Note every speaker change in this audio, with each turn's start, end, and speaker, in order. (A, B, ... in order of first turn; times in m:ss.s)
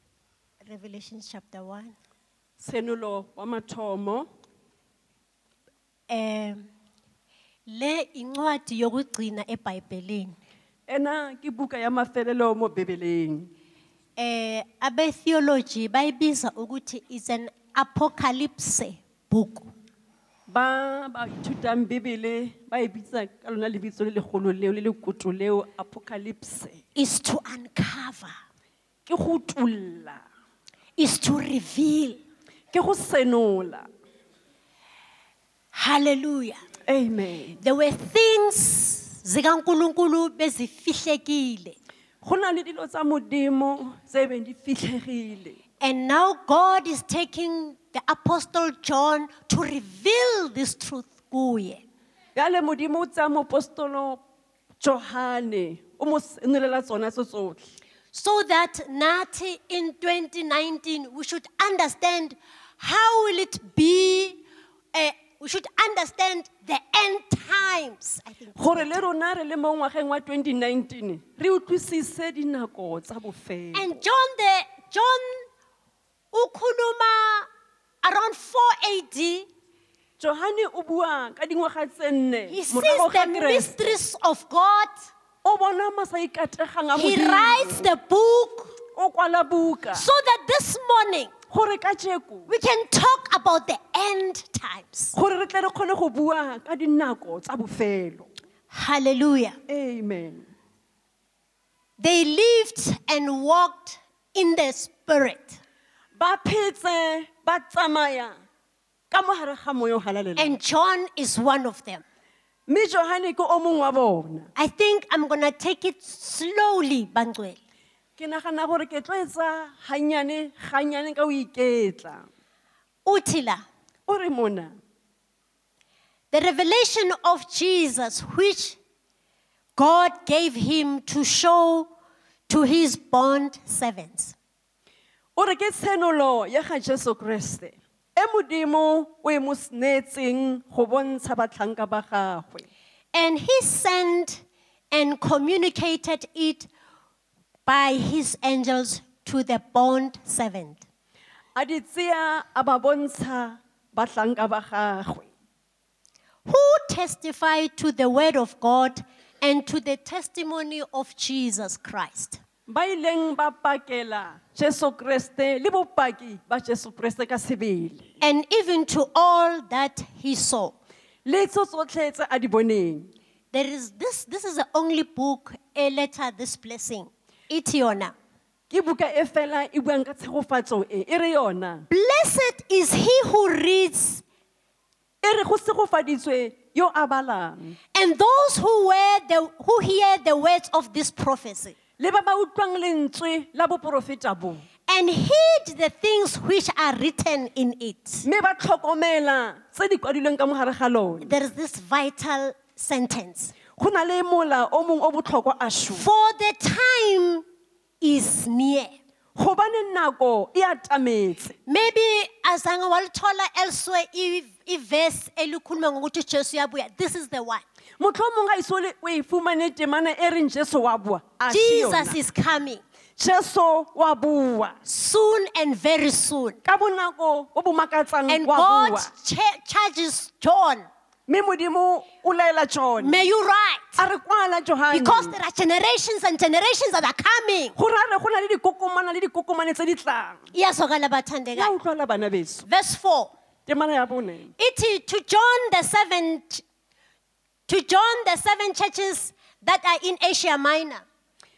0:00.6-0:01.9 A
0:02.6-0:04.3 B
0:06.1-0:06.7 A
0:07.7-0:10.4 A
0:10.9-0:13.5 B
0:14.2-0:19.7 A
0:20.5-0:26.8 B
0:27.0-0:28.4 A
0:29.0-0:30.2 B
0:31.0-0:32.2 A
0:32.7-0:33.9 B
0:35.7-0:36.6 A
0:36.9-0:37.6 B
0:37.6-0:41.8 A
0:42.2-0:45.6 B
0:45.8-0:51.8 A
0:52.3-0:54.2 B
0:54.8-0:57.7 B
0:58.1-1:04.4 A
1:04.9-1:09.0 A
1:08.6-1:13.9 B
1:13.7-1:15.4 A
1:16.3-1:17.5 A
1:18.0-1:19.5 A
1:20.2-1:24.0 B
1:22.5-1:25.1 A
1:25.4-1:27.8 B
1:26.9-1:28.7 A
1:28.9-1:30.1 B
1:29.9-1:31.3 A
1:31.5-1:32.5 B
1:32.5-1:35.1 A
1:35.1-1:38.3 B
1:38.7-1:39.6 A
1:39.7-1:40.5 B
1:42.0-1:45.6 A
1:46.2-1:48.4 B
1:49.1-1:50.6 B
1:50.4-1:52.0 A
1:52.7-1:54.5 B
1:54.6-1:57.6 A
1:58.2-2:02.3 B
2:03.0-2:03.6 A
2:04.1-2:04.8 B
2:06.3-2:08.8 A
2:09.8-2:11.9 A
2:12.5-2:14.4 A
2:15.4-2:22.7 B
2:23.1-2:26.7 A
2:27.6-2:30.8 A
2:31.5-2:35.3 B
2:36.5-2:42.4 A
2:42.7-2:48.0 B
2:48.2-2:50.8 A
2:51.2-2:53.1 B
2:53.5-2:58.1 A
2:58.7-3:01.9 B
3:01.9-3:04.2 A
3:05.2-3:07.8 B
3:07.9-3:11.7 A
3:12.0-3:14.6 B
3:14.9-3:18.2 A
3:18.2-3:21.3 B
3:21.2-3:23.5 A
3:23.8-3:26.0 B
3:25.9-3:27.4 A
3:28.0-3:28.9 A
3:29.4-3:31.6 B
3:31.7-3:37.6 A
3:38.0-3:42.2 B
3:41.5-3:42.8 A
3:43.2-3:44.8 B
3:44.8-3:46.6 A
3:46.6-3:49.1 B
3:48.3-3:50.9 A
3:51.3-3:53.2 B
3:53.0-3:54.0 A
3:54.0-3:55.4 B
3:54.9-3:57.7 A
3:57.8-4:00.4 B
4:00.5-4:01.7 A
4:01.5-4:02.7 B
4:02.7-4:03.3 A
4:03.6-4:04.5 B
4:04.6-4:06.6 A
4:07.7-4:11.0 A